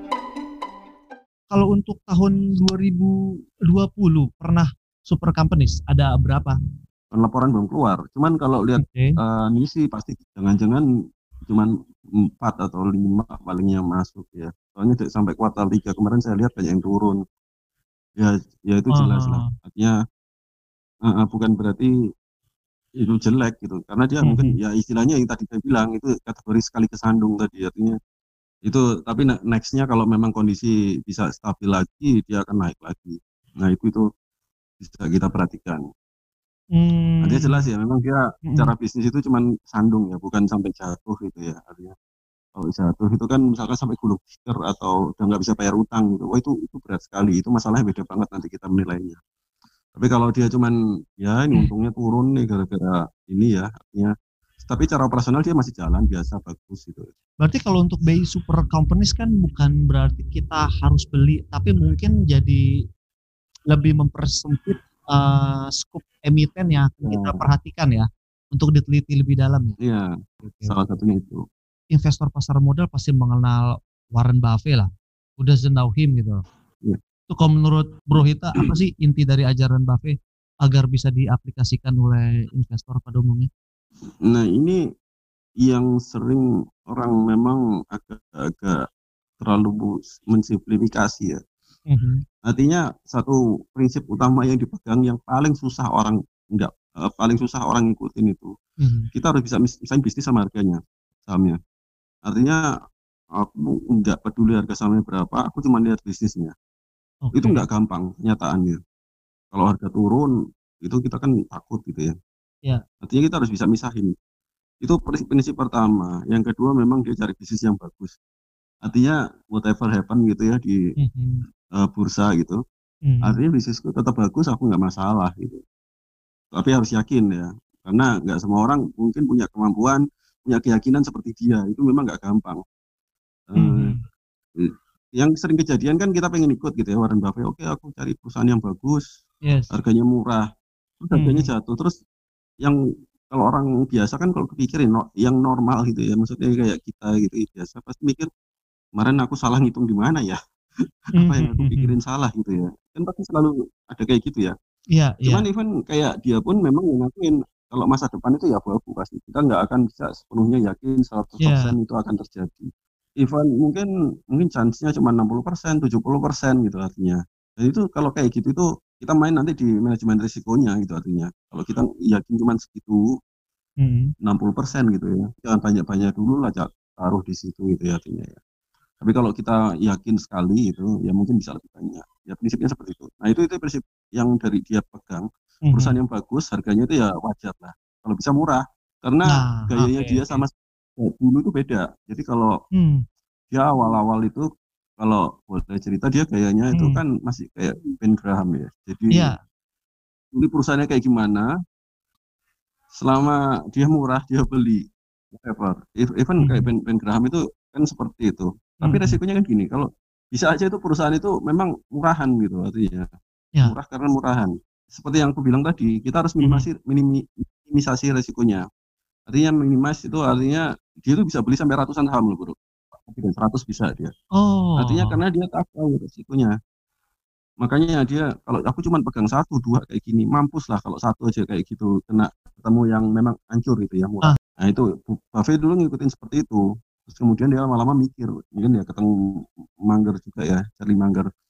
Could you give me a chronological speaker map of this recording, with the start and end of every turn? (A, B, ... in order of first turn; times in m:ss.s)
0:01.5-0:03.2 A
0:03.7-0:06.6 A
0:07.1-0:10.8 B
0:08.8-0:09.1 A
0:12.4-0:17.2 B
0:18.2-0:20.0 B
0:18.9-0:19.5 A
0:21.0-0:21.9 B
0:23.0-0:28.0 B
0:24.2-0:24.6 A
0:28.6-0:34.0 B
0:34.8-0:35.8 B
0:36.8-0:37.6 A
0:37.2-0:41.9 B
0:38.5-0:38.7 A
0:42.6-0:49.2 B
0:49.9-0:54.1 B
0:54.6-0:57.1 B
0:57.4-1:02.6 A
1:03.7-1:09.8 A
1:07.0-1:07.4 B
1:09.8-1:10.1 B
1:10.4-1:10.7 A
1:10.7-1:11.4 B
1:11.9-1:16.4 A
1:17.3-1:23.5 A
1:24.2-1:24.8 B
1:25.6-1:28.8 B
1:29.4-1:31.4 B
1:31.9-1:32.2 A
1:32.4-1:38.5 B
1:38.8-1:39.1 A
1:39.1-1:41.6 B
1:42.2-1:42.6 B
1:43.4-1:46.5 B
1:47.2-1:47.6 A
1:47.4-1:48.8 B
1:49.5-1:50.3 B
1:50.8-1:52.1 B
1:53.0-1:54.1 B
1:54.8-1:58.1 B
1:58.8-2:00.8 B
2:01.0-2:01.4 A
2:01.8-2:02.6 B
2:03.1-2:03.4 A
2:03.2-2:05.6 B
2:06.5-2:12.6 B
2:13.5-2:13.9 B
2:13.6-2:14.0 A
2:14.6-2:19.0 B
2:19.4-2:19.7 A
2:19.7-2:20.4 B
2:21.0-2:22.0 B
2:21.1-2:21.5 A
2:23.3-2:28.3 B
2:29.0-2:30.4 B
2:31.2-2:31.9 A
2:31.2-2:34.5 B
2:34.9-2:35.4 A
2:35.2-2:53.1 B
2:41.4-2:41.7 A
2:53.8-2:54.1 A
2:54.2-2:58.4 B
2:59.0-3:12.6 B
3:05.7-3:06.0 A
3:09.3-3:10.4 A
3:12.7-3:13.0 A
3:13.5-3:14.4 B
3:15.0-3:19.3 B
3:16.7-3:17.0 A
3:20.3-3:21.5 B
3:23.0-3:33.1 B
3:26.4-3:26.7 A
3:28.8-3:29.2 A
3:33.6-3:38.6 B
3:36.4-3:36.6 A
3:39.3-3:44.1 B
3:44.4-3:45.2 A
3:44.8-3:46.5 B
3:47.6-3:59.1 B
3:59.9-4:01.3 B